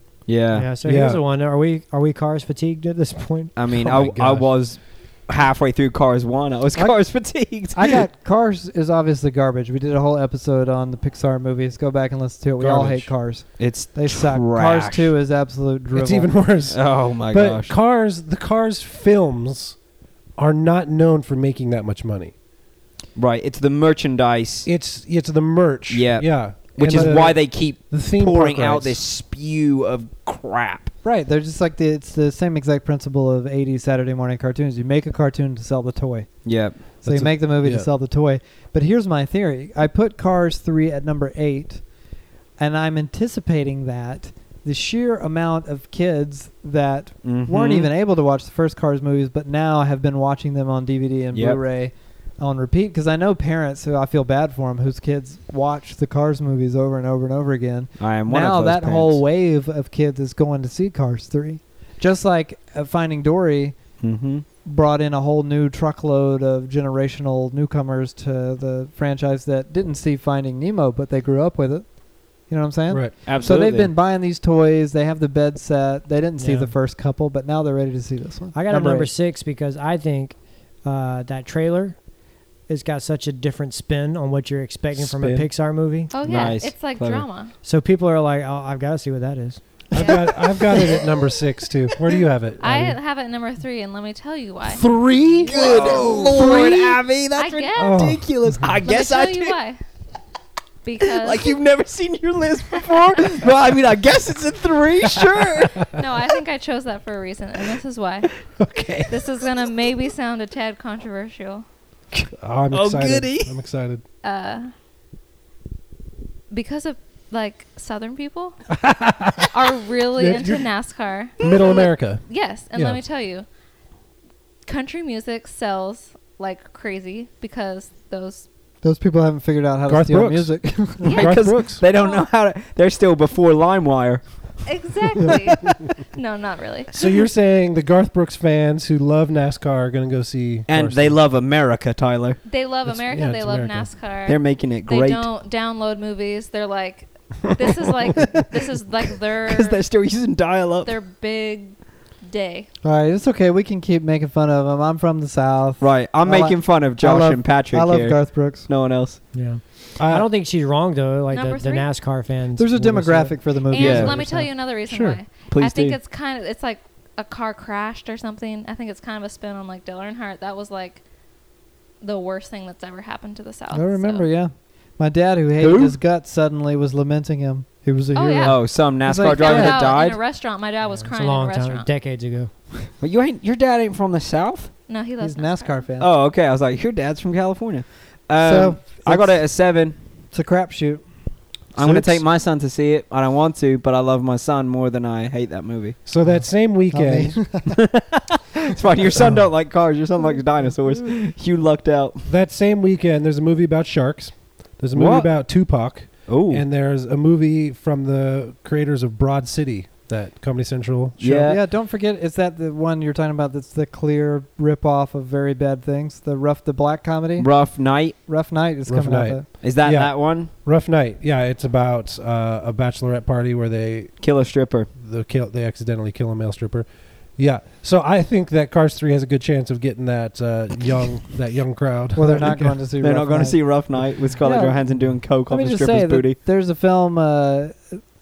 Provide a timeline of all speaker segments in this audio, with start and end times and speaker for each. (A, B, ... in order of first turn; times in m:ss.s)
0:00.3-0:00.7 A
0:00.5-0:03.5 B
0:00.8-0:01.2 C
0:03.5-0:08.0 A
0:03.7-0:04.6 C
0:06.7-0:16.3 D
0:12.6-0:13.2 C
0:13.6-0:15.1 A
0:15.9-0:19.8 C
0:16.7-0:17.7 A
0:20.4-0:22.3 C
0:23.2-0:24.7 A
0:24.6-0:29.0 C
0:25.9-0:30.9 A
0:31.0-0:41.8 D
0:36.4-0:36.8 A
0:37.0-0:37.9 C
0:42.6-1:03.8 D
0:47.2-0:47.9 A
0:51.3-0:51.6 A
0:58.0-0:59.2 A
1:04.0-1:04.4 A
1:04.6-1:19.1 D
1:13.2-1:13.9 A
1:16.4-1:16.7 B
1:18.5-1:22.0 B
1:22.7-1:26.5 B
1:24.9-1:25.5 C
1:26.1-1:27.5 E
1:26.2-1:27.2 A
1:27.6-1:29.6 B
1:29.9-1:32.9 C
1:30.0-1:30.2 E
1:32.6-1:34.8 E
1:34.7-1:36.9 C
1:35.4-1:39.6 A
1:35.5-1:36.7 E
1:37.4-1:38.1 E
1:37.8-1:38.7 C
1:38.8-1:39.8 E
1:40.8-1:41.6 E
1:41.0-1:45.9 A
1:45.8-1:48.3 E
1:48.6-1:49.1 C
1:49.1-1:51.6 E
1:52.2-1:54.0 C
1:52.7-1:53.5 A
1:54.2-1:54.7 E
1:56.5-1:58.6 E
1:58.7-1:59.6 C
1:59.5-2:03.4 E
2:00.2-2:00.6 C
2:01.4-2:03.0 C
2:04.6-2:08.5 E
2:08.8-2:11.1 D
2:09.9-2:11.8 C
2:11.0-2:12.3 E
2:11.0-2:14.2 A
2:14.6-2:16.9 E
2:16.9-2:21.2 C
2:20.7-2:22.4 A
2:22.4-2:29.8 E
2:22.8-2:23.9 C
2:24.3-2:25.3 A
2:29.4-2:30.9 A
2:30.8-2:32.7 E
2:32.8-2:38.7 D
2:35.8-2:39.2 A
2:39.3-2:43.5 B
2:40.0-2:40.3 C
2:41.3-2:41.9 E
2:42.6-2:44.5 D
2:43.7-2:51.0 E
2:43.7-2:44.1 A
2:44.9-2:45.2 C
2:45.5-2:46.0 A
2:52.0-2:54.3 E
2:53.7-2:59.9 D
2:55.6-2:56.0 A
2:58.1-2:58.6 E
2:58.4-3:00.2 A
2:59.2-3:01.9 E
3:00.8-3:02.9 B
3:03.0-3:04.7 A
3:04.9-3:05.9 E
3:05.2-3:06.1 D
3:06.0-3:09.9 A
3:08.4-3:09.4 D
3:10.3-3:11.1 D
3:11.7-3:16.0 A
3:11.8-3:12.2 C
3:16.0-3:17.6 C
3:16.9-3:17.8 D
3:17.7-3:22.3 A
3:22.3-3:31.5 C
3:24.9-3:25.3 A
3:26.3-3:26.6 A
3:31.2-3:31.6 A
3:31.4-3:37.6 D
3:37.4-3:38.2 A
3:38.2-3:39.4 D
3:38.9-3:44.1 C
3:39.6-3:40.5 A
3:44.2-3:44.9 A
3:45.0-3:46.8 C
3:47.4-3:52.8 C
3:52.1-3:53.6 D
3:53.0-3:56.4 A
3:54.4-3:58.0 D